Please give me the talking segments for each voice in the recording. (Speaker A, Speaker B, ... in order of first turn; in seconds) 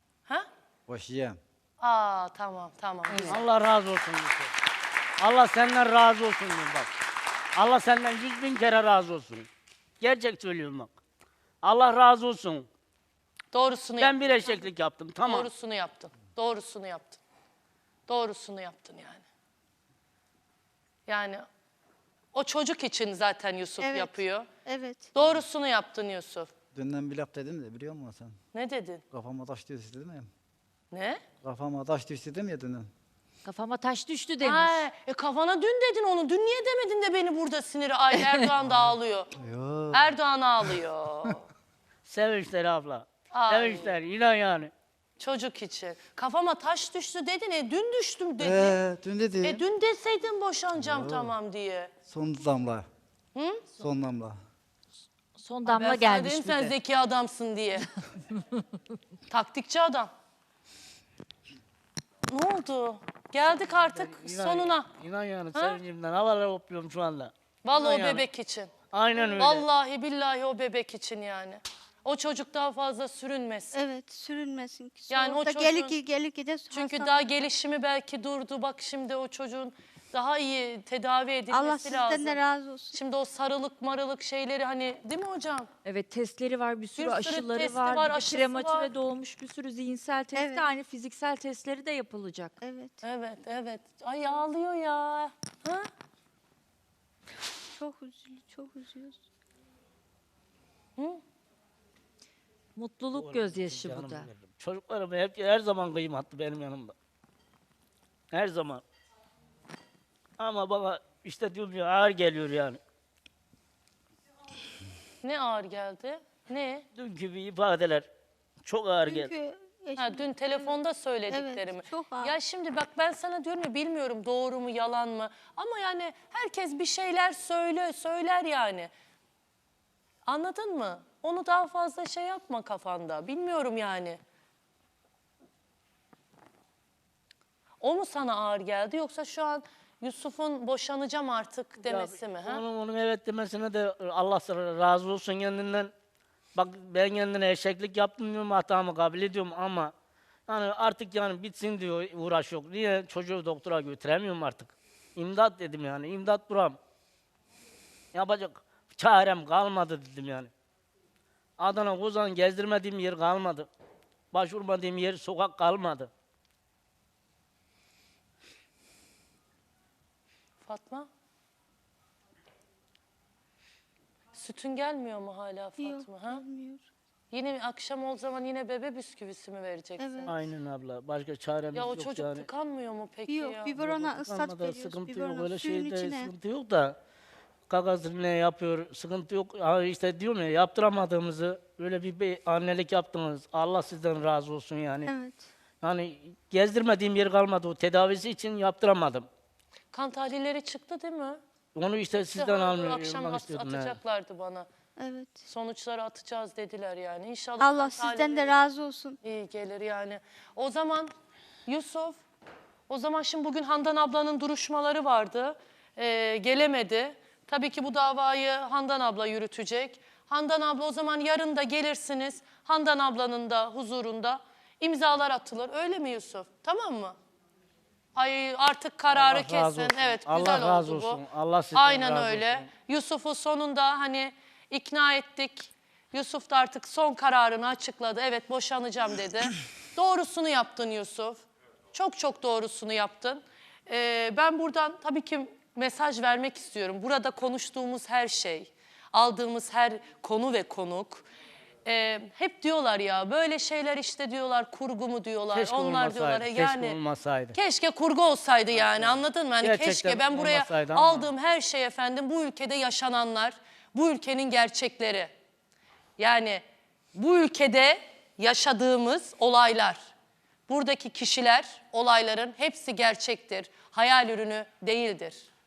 Speaker A: 0.9-1.4, 26.7-28.4, 29.1-30.3, 31.4-32.9, 39.4-41.3, 48.4-49.6, 50.8-51.3, 52.1-52.9, 53.8-54.4
Speaker B: 1.8-3.4, 13.5-14.6, 15.2-17.2, 18.1-19.2, 21.1-21.4, 22.3-24.5, 25.1-26.5, 28.5-29.0, 30.9-31.2, 34.4-39.3, 39.9-41.4, 43.3-44.0, 45.2-48.8, 49.4-51.9, 53.3-53.7, 55.6-57.9, 59.3-60.1, 62.3-64.9, 65.5-65.8, 67.6-68.7, 69.4-73.8, 75.1-76.0, 76.7-82.4, 82.9-85.7, 87.0-88.9, 93.0-95.9, 115.2-116.8, 120.0-128.9, 130.2-134.2, 137.8-142.6, 170.6-171.1, 174.3-176.4, 177.3-180.3, 181.7-183.7, 199.9-201.4, 202.3-204.7, 205.4-208.6, 209.2-211.1, 211.7-212.2, 212.9-227.2, 228.1-231.2, 231.7-251.2, 251.8-257.0, 257.5-265.3, 266.2-266.6, 267.1-270.0, 270.7-275.5
Speaker C: 3.2-4.5, 5.2-6.9, 7.5-9.5, 10.0-10.9, 11.6-12.7, 14.0-15.5, 42.0-44.7, 63.7-68.2, 68.9-69.7, 103.1-106.9, 108.3-108.8, 110.4-112.8, 116.9-118.1, 118.6-119.3, 141.8-145.9, 146.5-149.9, 150.5-156.8, 158.1-160.5, 161.6-163.7, 164.3-166.1, 180.2-182.4, 183.8-187.0, 187.7-195.1, 195.8-199.3, 201.7-204.0, 229.1-232.7, 255.5-257.6, 259.6-261.3
Speaker D: 23.8-25.1, 73.7-77.2, 81.5-83.0, 90.3-90.7, 92.6-93.0, 97.8-99.2, 119.0-120.7, 121.3-122.3, 175.8-176.8, 180.0-180.3, 183.3-186.3, 195.1-195.5, 205.0-205.4, 207.6-209.2
Speaker E: 33.4-34.8, 55.4-56.7, 85.8-92.6, 102.8-104.3